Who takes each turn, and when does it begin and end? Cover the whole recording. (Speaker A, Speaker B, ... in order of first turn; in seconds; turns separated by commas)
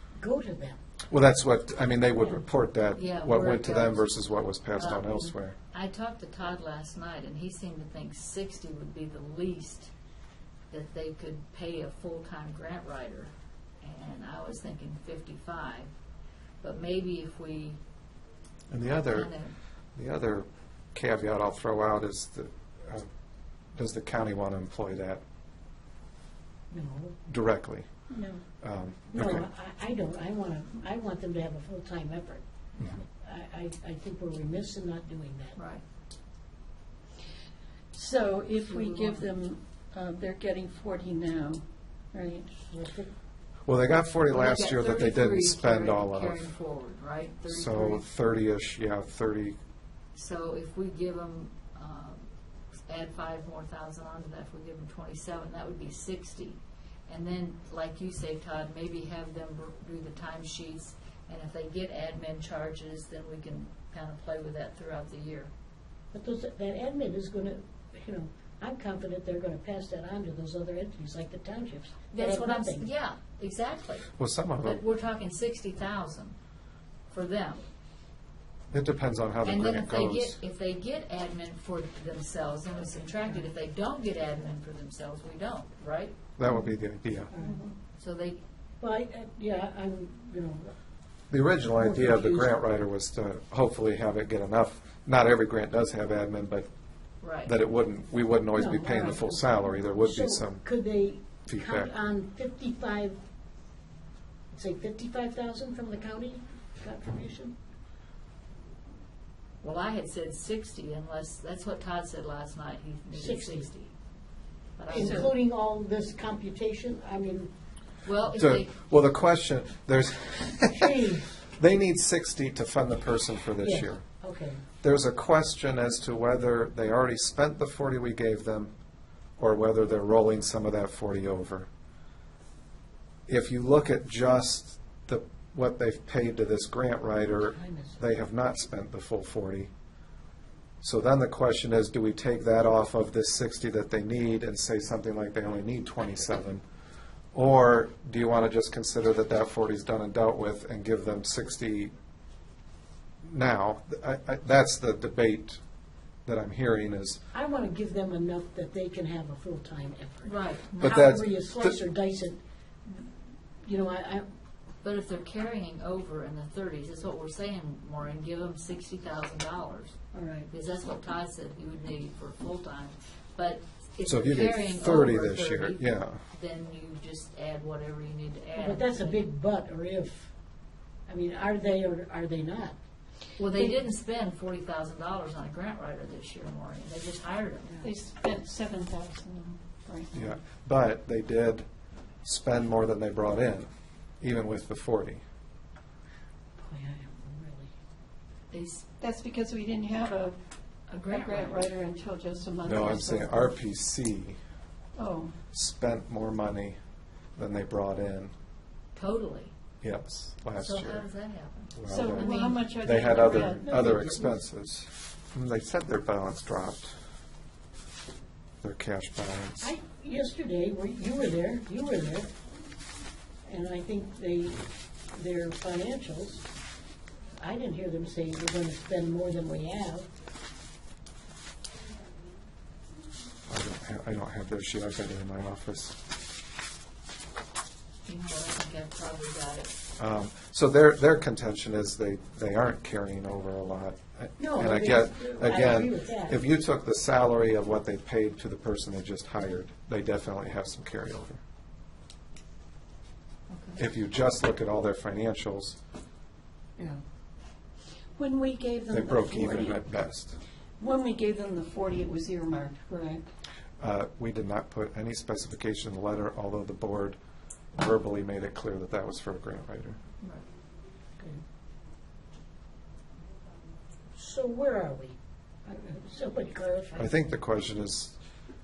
Speaker A: 0.1-0.8, Speaker B: 1.1-5.5, Speaker C: 2.9-4.1, Speaker C: 4.8-9.9, Speaker C: 10.7-15.9, Speaker C: 16.6-17.8, Speaker B: 18.7-19.3, Speaker C: 18.9-19.5, Speaker B: 19.9-23.1, Speaker B: 23.8-25.2, Speaker A: 26.7-27.1, Speaker B: 27.3-27.9, Speaker D: 28.1-28.4, Speaker B: 28.6-29.5, Speaker A: 29.1-32.4, Speaker A: 33.2-35.5, Speaker C: 35.5-35.8, Speaker D: 37.9-42.5, Speaker C: 38.7-39.3, Speaker A: 42.7-43.1, Speaker B: 43.6-46.4, Speaker C: 44.3-48.0, Speaker B: 47.5-49.6, Speaker C: 50.1-52.2, Speaker C: 52.9-65.5, Speaker A: 66.1-72.8, Speaker C: 72.1-74.1, Speaker B: 74.2-74.8, Speaker C: 74.6-76.3, Speaker C: 77.1-77.6, Speaker B: 78.7-80.3, Speaker C: 79.4-86.2, Speaker B: 86.4-87.3, Speaker A: 87.3-87.6, Speaker D: 87.4-87.8, Speaker C: 88.0-88.4, Speaker A: 88.8-90.7, Speaker B: 91.3-96.7, Speaker A: 91.8-92.5, Speaker C: 97.2-97.5, Speaker B: 97.4-100.6, Speaker A: 98.5-103.2, Speaker B: 101.4-101.9, Speaker A: 104.5-107.5, Speaker C: 109.6-113.9, Speaker A: 113.1-113.7, Speaker C: 114.8-115.3, Speaker A: 114.9-117.5, Speaker C: 118.0-118.7, Speaker B: 118.3-124.0, Speaker A: 120.7-121.3, Speaker A: 123.6-124.6, Speaker B: 124.8-128.7, Speaker B: 129.4-131.7, Speaker B: 133.3-139.7, Speaker A: 137.5-138.0, Speaker B: 140.8-146.6, Speaker B: 147.3-151.9, Speaker B: 153.2-155.6, Speaker B: 156.2-157.2, Speaker A: 157.3-163.1, Speaker C: 160.2-161.2, Speaker B: 160.8-161.7, Speaker A: 163.6-164.3, Speaker C: 164.8-179.2, Speaker A: 170.1-170.5, Speaker B: 174.0-176.2, Speaker A: 178.6-180.3, Speaker A: 181.1-182.8, Speaker C: 183.4-187.8, Speaker D: 187.8-190.1, Speaker B: 190.1-191.7, Speaker B: 192.2-193.7, Speaker B: 194.2-195.2, Speaker A: 196.6-197.7, Speaker C: 198.5-198.8, Speaker D: 199.0-200.4, Speaker C: 200.9-201.7, Speaker D: 201.1-203.5, Speaker B: 202.6-204.4, Speaker D: 204.9-205.3, Speaker B: 205.5-206.8, Speaker B: 207.3-208.3, Speaker C: 208.9-209.5, Speaker B: 209.8-211.0, Speaker C: 210.6-213.5, Speaker B: 211.7-216.9, Speaker D: 211.9-214.2, Speaker A: 213.7-214.3, Speaker B: 218.6-219.7, Speaker A: 219.6-222.3, Speaker A: 223.4-226.4, Speaker A: 227.4-230.1, Speaker B: 233.5-236.0, Speaker C: 238.1-239.7, Speaker B: 240.0-251.4, Speaker A: 244.4-246.4, Speaker C: 253.5-253.8, Speaker B: 253.8-255.8, Speaker D: 258.2-259.8, Speaker B: 258.9-260.4, Speaker D: 260.8-263.2, Speaker B: 263.8-267.2, Speaker B: 267.7-270.0, Speaker A: 274.1-277.1, Speaker B: 277.0-278.2